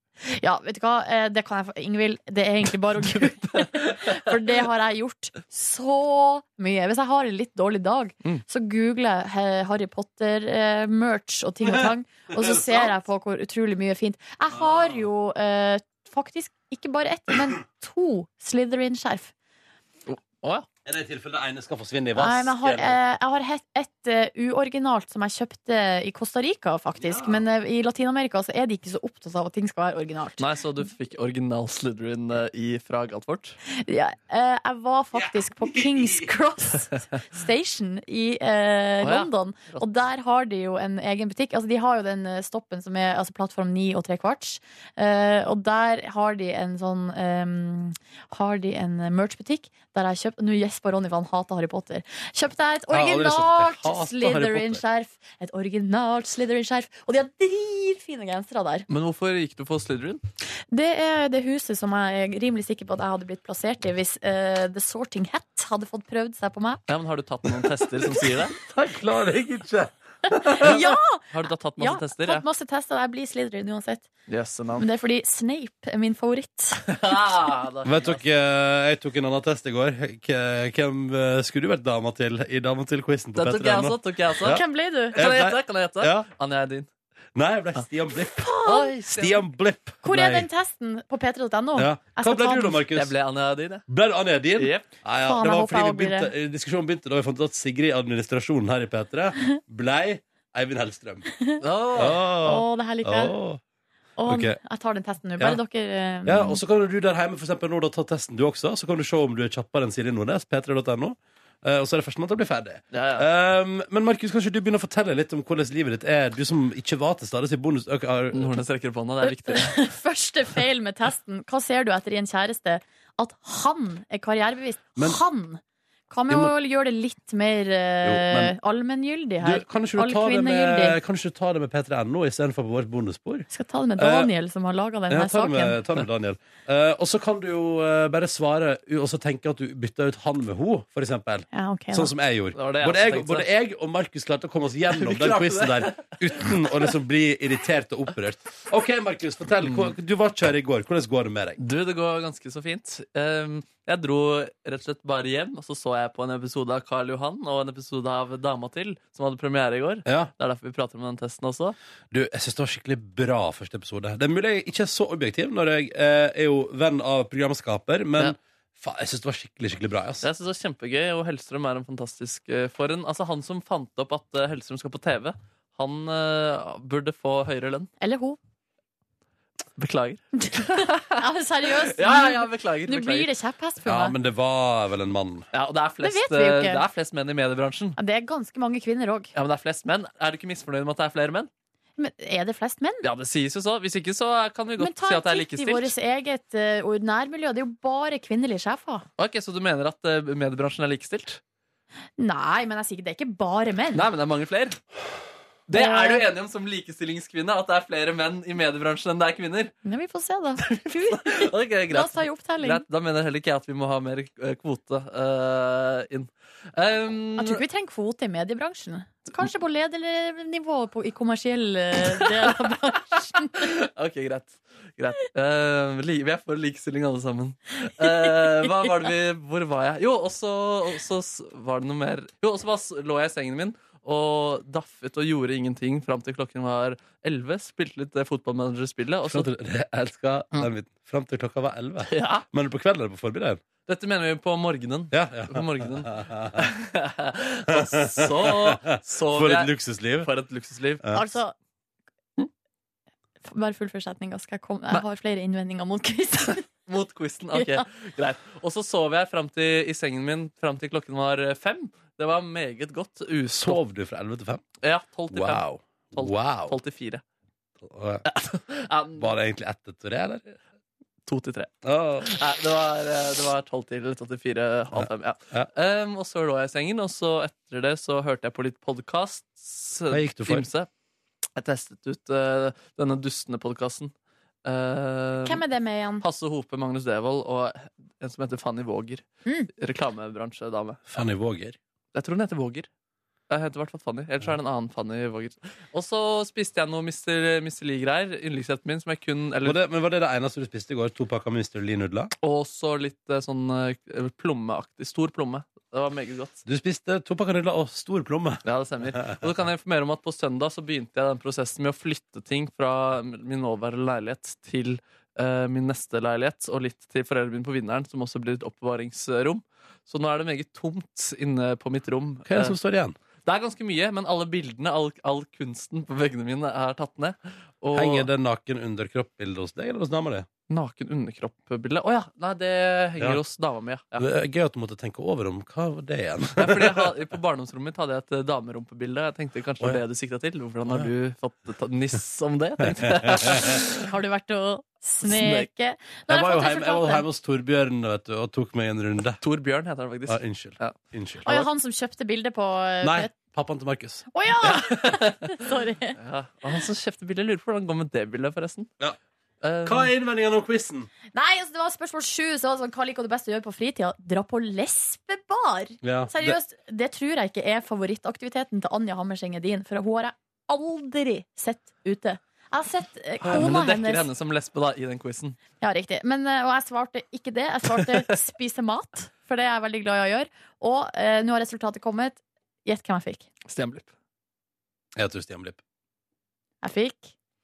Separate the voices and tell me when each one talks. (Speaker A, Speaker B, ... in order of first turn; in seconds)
Speaker A: 0.2-19.3, 22.2-30.4, 33.7-58.9, 60.7-66.8, 70.3-71.2, 71.8-74.1, 74.8-76.9, 84.4-85.2, 88.4-88.9, 90.0-92.8, 95.2-96.3, 102.4-103.3, 104.2-106.6, 119.2-131.0, 133.5-135.8, 141.5-142.1, 178.0-178.4, 180.4-184.2, 186.0-186.8, 188.0-189.3, 192.0-193.0, 194.8-199.1, 202.2-204.1, 205.7-206.2, 209.8-212.8, 217.4-223.7, 228.0-228.9, 251.1-251.5, 253.4-256.7, 257.6-257.8, 285.4-286.2, 343.7-347.2, 351.5-353.3, 354.3-356.2, 361.3-374.3, 375.8-383.5, 386.8-387.3
Speaker B: 3.0-4.3, 20.1-20.7, 30.4-33.6, 39.0-39.9, 58.9-60.2, 66.9-68.5, 71.3-72.5, 74.3-74.9, 76.9-78.2, 83.4-86.9, 88.7-89.5, 92.9-93.8, 94.6-94.9, 101.6-102.3, 112.9-113.3, 118.3-119.8, 142.6-143.5, 144.9-146.9, 149.6-149.9, 151.6-161.8, 170.2-177.9, 179.8-183.3, 185.5-188.0, 189.3-191.5, 193.0-195.9, 199.2-201.4, 203.9-204.8, 205.7-209.7, 210.6-217.6, 223.6-239.5, 242.1-242.4, 243.9-251.1, 256.9-263.8, 264.8-267.2, 268.3-269.3, 271.3-271.7, 272.2-280.9, 281.6-284.1, 284.6-285.6, 286.2-291.1, 292.1-292.9, 293.5-299.8, 302.4-306.6, 308.6-322.8, 323.4-328.3, 330.7-334.3, 336.6-344.0, 345.2-345.7, 349.4-351.0, 354.7-355.6, 356.2-358.9, 359.6-360.1, 373.4-375.6, 383.7-384.1
Speaker C: 11.7-12.9, 14.5-15.0, 20.9-23.0, 27.0-27.4, 35.1-36.3, 52.9-54.8, 67.5-70.9, 77.8-84.6, 85.2-86.3, 87.3-90.5, 91.8-93.1, 93.9-101.3, 102.0-103.6, 104.3-104.6, 106.2-118.6, 128.0-128.5, 129.4-133.5, 134.0-134.3, 135.1-151.6, 160.1-160.3, 162.1-170.3, 183.8-185.5, 239.3-243.6, 245.1-246.7, 247.7-250.3, 263.5-264.6, 265.3-266.8, 267.8-268.3, 269.2-270.6, 271.9-272.3, 274.9-275.7, 280.1-280.7, 291.1-291.8, 299.6-302.3, 306.7-308.6, 322.5-323.2, 327.9-330.5, 334.2-337.1, 340.9-341.1, 342.8-343.8, 346.3-349.4, 350.3-351.7, 353.0-354.3, 359.9-361.1, 366.0-366.6, 385.2-385.8